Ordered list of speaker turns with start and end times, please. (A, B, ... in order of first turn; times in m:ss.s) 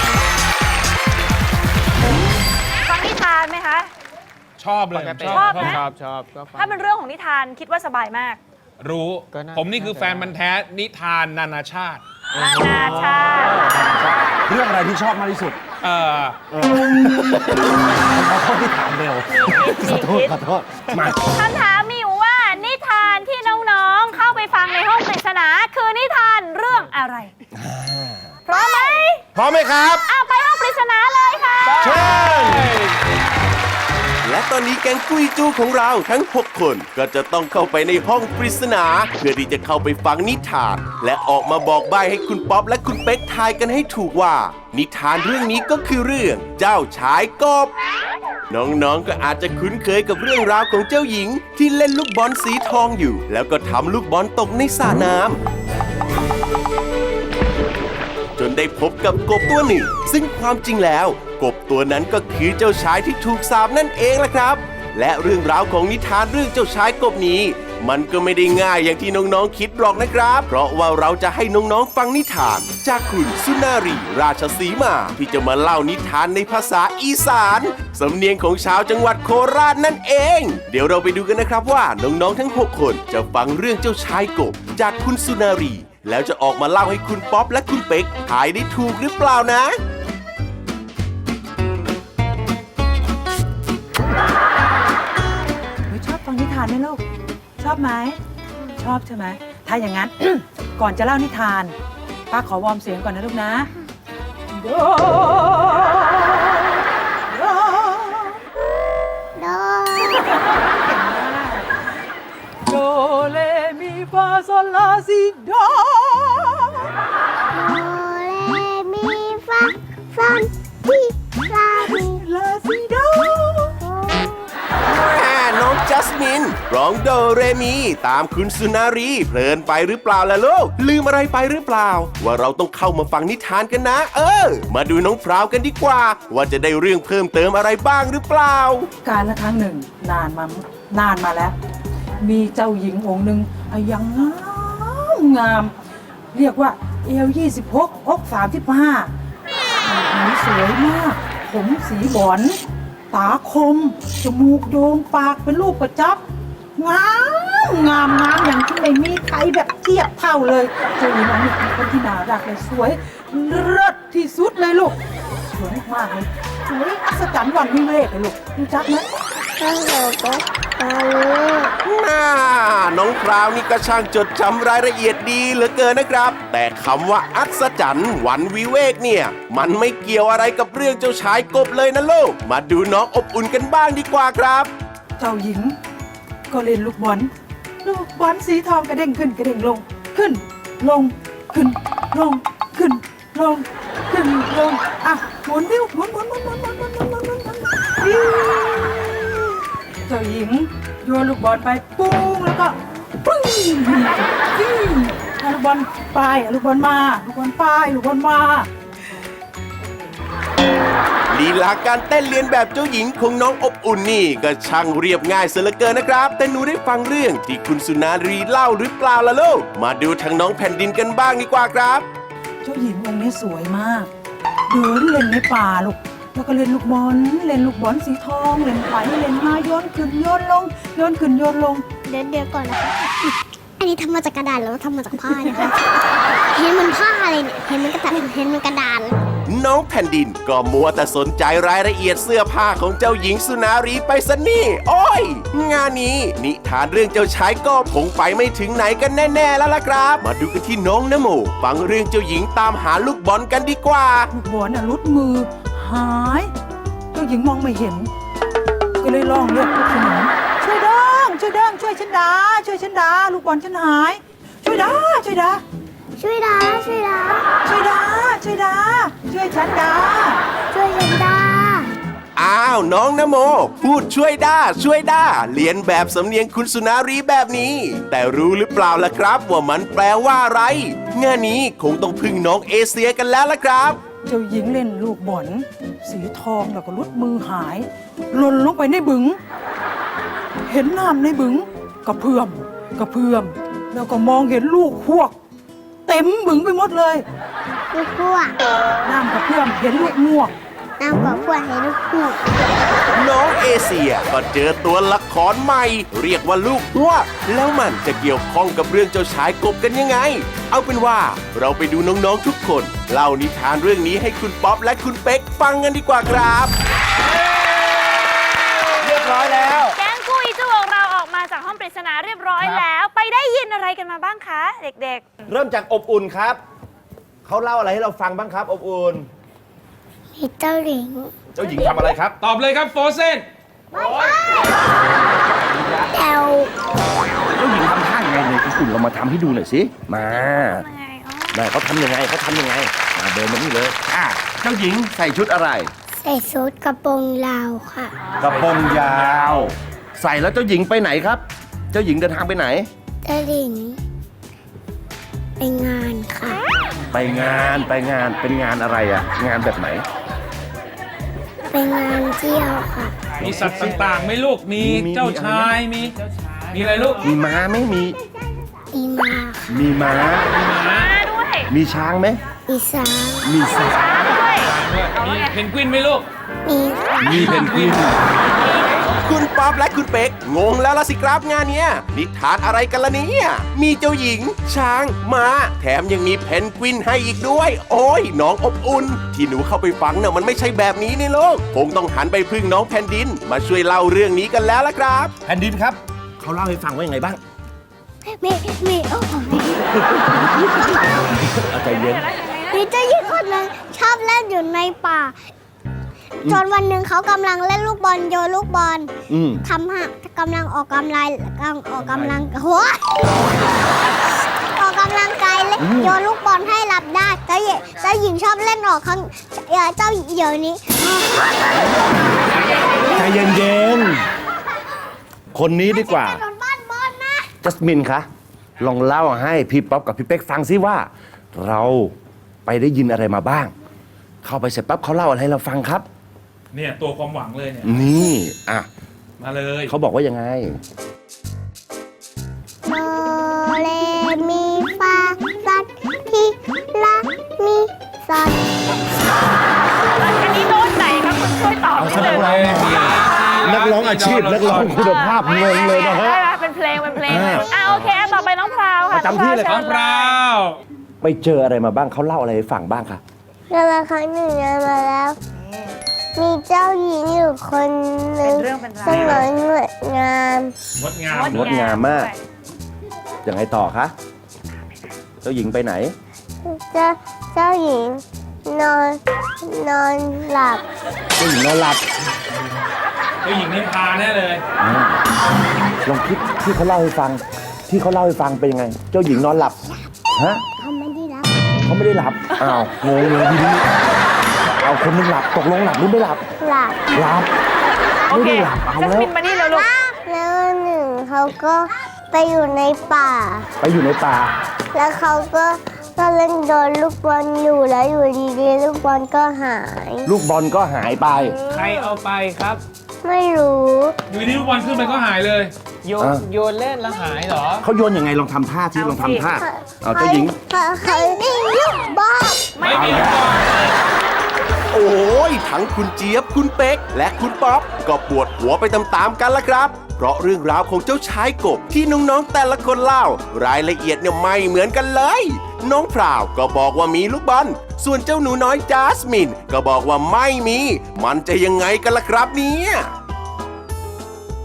0:02.8-0:03.9 A
0:04.6-0:05.8 B
0:04.9-0:06.8 C
0:05.2-0:05.9 A
0:06.6-0:08.4 A
0:08.8-0:12.0 B
0:09.3-0:10.4 C
0:12.3-0:15.6 D
0:12.4-0:14.5 A
0:15.8-0:16.4 B
0:16.5-0:21.2 D
0:19.3-0:20.3 A
0:21.2-0:27.3 A
0:27.5-0:28.4 D
0:28.5-0:29.2 A
0:28.5-0:29.0 E
0:29.3-0:30.1 D
0:30.1-0:32.1 A
0:31.8-0:32.8 D
0:31.8-0:32.2 C
0:31.9-0:32.5 B
0:34.2-0:47.7 F
0:48.5-0:55.4 F
0:58.4-1:29.8 F
1:35.9-1:37.0 G
1:37.6-1:38.2 G
1:38.8-1:41.8 G
1:42.3-1:43.7 G
1:44.5-1:48.4 G
1:49.4-1:50.4 E
1:50.2-1:51.7 G
1:52.7-1:56.9 G
1:57.5-2:02.2 E
2:01.8-2:03.8 G
2:03.8-2:04.3 E
2:04.8-2:18.9 F
2:19.0-2:21.6 G
2:22.2-2:25.7 G
2:26.3-2:29.1 G
2:29.8-2:32.6 G
2:33.1-2:36.2 G
2:36.8-2:45.0 G
2:45.5-2:49.1 G
2:49.6-2:51.7 E
2:51.8-3:04.7 F
3:05.2-3:05.8 G
3:06.5-3:07.3 G
3:07.8-3:28.7 G
3:31.3-3:42.0 F
3:42.6-3:44.1 G
3:44.7-3:51.8 G
3:52.0-3:59.2 E
3:59.5-4:14.3 F
4:14.3-4:16.5 G
4:17.1-4:18.1 G
4:19.0-4:25.6 G
4:26.2-4:27.5 E
4:27.6-4:30.4 G
4:30.7-4:31.9 E
4:32.4-4:44.0 F
4:44.2-4:49.4 G
4:50.7-4:55.4 G
4:56.1-4:57.2 G
4:57.9-4:58.6 E
4:59.0-5:00.5 G
5:01.0-5:02.5 E
5:03.1-5:16.7 F
5:19.0-5:20.0 D
5:19.9-5:25.2 A
5:25.5-5:26.6 D
5:27.4-5:29.3 D
5:30.4-5:31.3 E
5:31.6-5:32.4 D
5:32.4-5:33.4 B
5:33.9-5:34.8 E
5:35.8-5:36.1 D
5:36.0-5:36.7 E
5:37.6-5:40.9 D
5:40.3-5:41.6 A
5:41.5-5:45.9 D
5:46.2-5:48.2 E
5:48.4-5:52.9 D
5:48.4-5:49.6 B
5:53.2-5:54.0 E
5:55.6-5:56.6 E
5:57.1-6:00.1 D
5:57.2-5:57.7 B
6:01.7-6:03.2 E
6:03.4-6:06.2 B
6:03.4-6:04.1 D
6:03.5-6:03.9 C
6:04.8-6:05.8 D
6:06.0-6:07.1 C
6:06.7-6:07.2 B
6:07.2-6:08.2 D
6:08.9-6:09.6 E
6:09.7-6:10.5 D
6:10.4-6:11.1 B
6:10.8-6:11.7 A
6:11.7-6:12.4 D
6:12.7-6:13.6 E
6:13.4-6:14.3 D
6:13.6-6:15.6 A
6:14.2-6:16.2 B
6:16.6-6:17.5 E
6:17.2-6:18.2 D
6:17.4-6:18.0 B
6:18.5-6:19.1 A
6:19.1-6:35.3 F
6:35.4-6:37.4 D
6:38.2-6:39.8 E
6:40.0-6:42.2 D
6:40.5-6:41.0 E
6:41.8-6:42.9 A
6:42.7-6:45.4 E
6:46.4-6:49.1 E
6:49.3-6:49.6 D
6:49.6-6:53.0 E
6:54.8-7:01.8 E
6:55.8-6:56.2 D
7:03.0-7:03.2 E
7:03.1-7:04.2 D
7:05.5-7:06.4 D
7:05.9-7:07.5 E
7:07.6-7:08.3 D
7:08.8-7:13.7 D
7:14.4-7:16.1 D
7:16.7-7:18.0 B
7:17.8-7:18.9 D
7:19.4-7:19.9 B
7:19.9-7:20.8 D
7:22.8-7:28.8 E
7:30.2-7:32.7 A
7:32.0-7:36.4 D
7:32.0-7:35.1 B
7:34.7-7:40.4 A
7:37.3-7:38.0 D
7:39.1-7:39.8 D
7:39.6-7:40.8 B
7:41.2-7:43.2 D
7:43.7-7:45.4 E
7:45.6-7:45.9 A
7:46.4-7:50.7 E
7:48.4-7:49.5 A
7:49.1-7:49.4 B
7:51.0-7:51.7 B
7:51.3-7:52.4 A
7:51.4-7:52.3 D
7:53.4-7:54.1 D
7:55.4-7:56.1 D
7:56.6-8:00.8 E
8:01.4-8:02.0 D
8:03.4-8:04.6 B
8:04.8-8:05.2 D
8:06.0-8:09.8 D
8:10.3-8:10.6 D
8:10.8-8:11.8 E
8:11.8-8:13.9 D
8:12.5-8:12.8 A
8:14.8-8:16.4 D
8:16.6-8:17.1 E
8:17.1-8:17.5 D
8:18.3-8:19.9 A
8:18.3-8:19.3 D
8:19.4-8:23.7 E
8:23.8-8:24.6 D
8:24.9-8:30.3 E
8:30.3-8:31.6 D
8:31.5-8:32.2 A
8:31.7-8:32.8 C
8:33.2-8:34.2 E
8:34.3-8:35.7 B
8:36.0-8:37.9 C
8:36.2-8:36.4 D
8:37.8-8:40.6 D
8:38.9-8:39.5 A
8:39.5-8:42.7 E
8:41.1-8:41.3 A
8:42.8-8:43.4 A
8:42.8-8:44.0 B
8:42.9-8:43.5 D
8:44.9-9:03.1 F